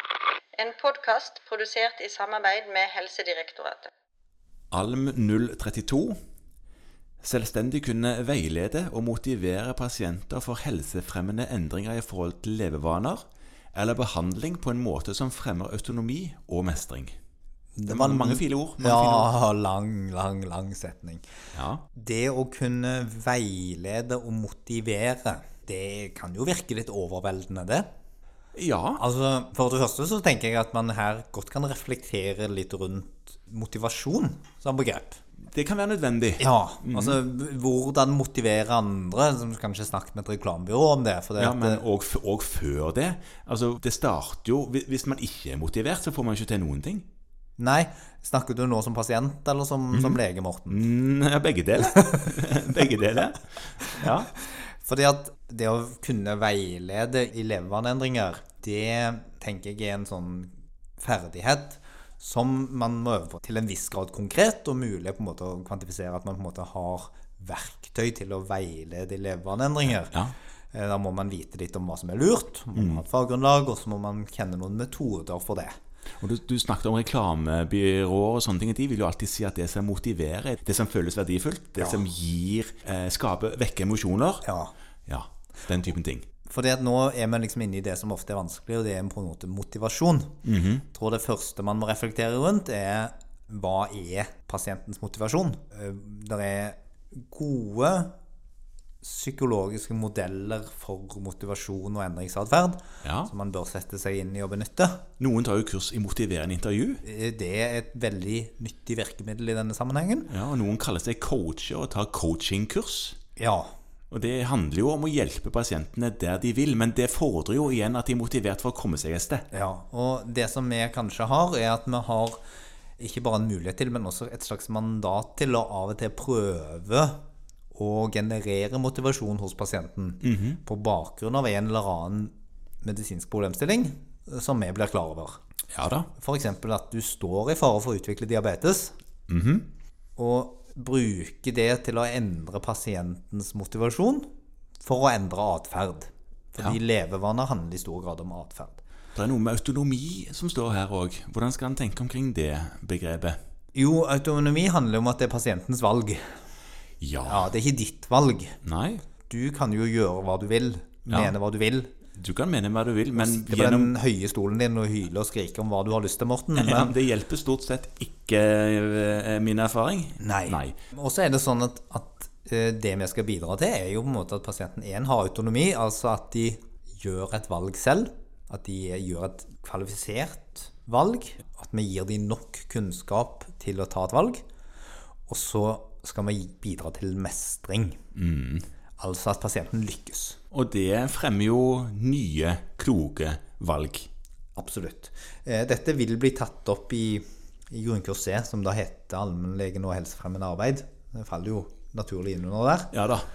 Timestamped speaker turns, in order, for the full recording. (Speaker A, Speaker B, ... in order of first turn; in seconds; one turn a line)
Speaker A: 0.6-3.9
Speaker B: 4.7-6.2
Speaker B: 7.2-13.2
Speaker B: 13.7-17.1
Speaker C: 17.8-21.2
Speaker B: 17.9-19.3
Speaker B: 21.5-21.9
Speaker C: 21.9-27.9
Speaker B: 28.5-29.0
Speaker C: 29.0-35.2
Speaker B: 35.5-37.2
Speaker C: 36.4-41.8
Speaker B: 41.4-47.0
Speaker C: 47.6-50.9
Speaker B: 49.9-50.2
Speaker B: 50.7-54.3
Speaker C: 54.8-70.2
Speaker C: 70.7-75.8
Speaker B: 72.8-73.0
Speaker B: 76.2-84.5
Speaker C: 84.4-84.7
Speaker B: 85.1-86.2
Speaker C: 86.5-98.1
Speaker B: 90.5-90.8
Speaker C: 99.0-105.1
Speaker B: 103.0-103.3
Speaker B: 105.2-107.0
Speaker C: 107.0-110.3
Speaker B: 110.3-113.2
Speaker C: 113.4-113.7
Speaker B: 114.1-119.5
Speaker C: 119.5-122.4
Speaker C: 123.0-127.2
Speaker C: 127.7-135.4
Speaker B: 130.2-130.6
Speaker B: 135.7-136.1
Speaker C: 136.2-138.9
Speaker B: 139.3-139.7
Speaker C: 140.2-144.3
Speaker C: 144.8-148.8
Speaker B: 149.2-153.4
Speaker C: 153.7-156.4
Speaker B: 157.0-157.5
Speaker C: 157.3-158.6
Speaker B: 158.6-159.0
Speaker C: 159.3-161.9
Speaker B: 162.1-163.9
Speaker C: 163.2-166.9
Speaker B: 166.6-170.7
Speaker C: 170.2-184.4
Speaker C: 185.3-188.0
Speaker B: 188.2-188.7
Speaker C: 189.0-190.4
Speaker B: 190.5-194.1
Speaker C: 194.6-202.9
Speaker B: 202.9-203.3